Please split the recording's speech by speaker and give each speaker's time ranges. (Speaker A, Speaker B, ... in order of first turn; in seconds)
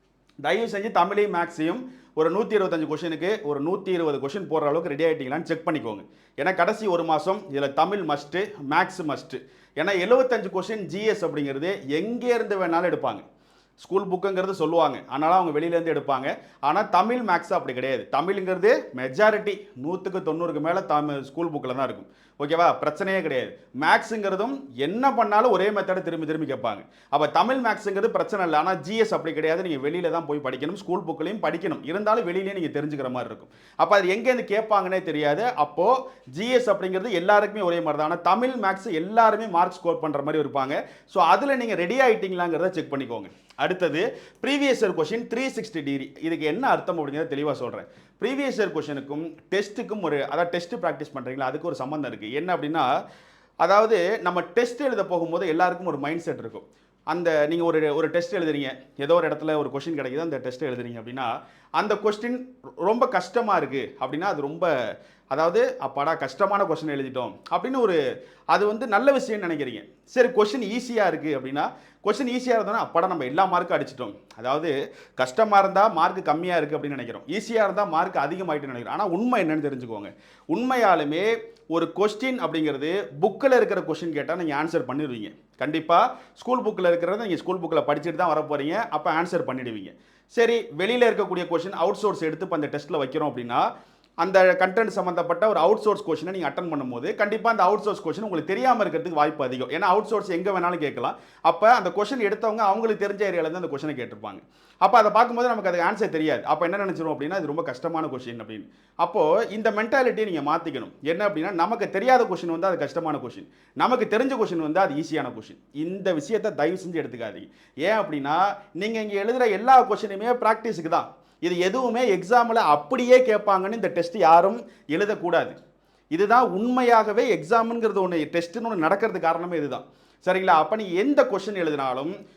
Speaker A: 0.4-13.2, 13.8-52.9, 53.6-64.7, 65.3-68.0, 68.5-93.7, 94.2-125.5, 126.1-132.1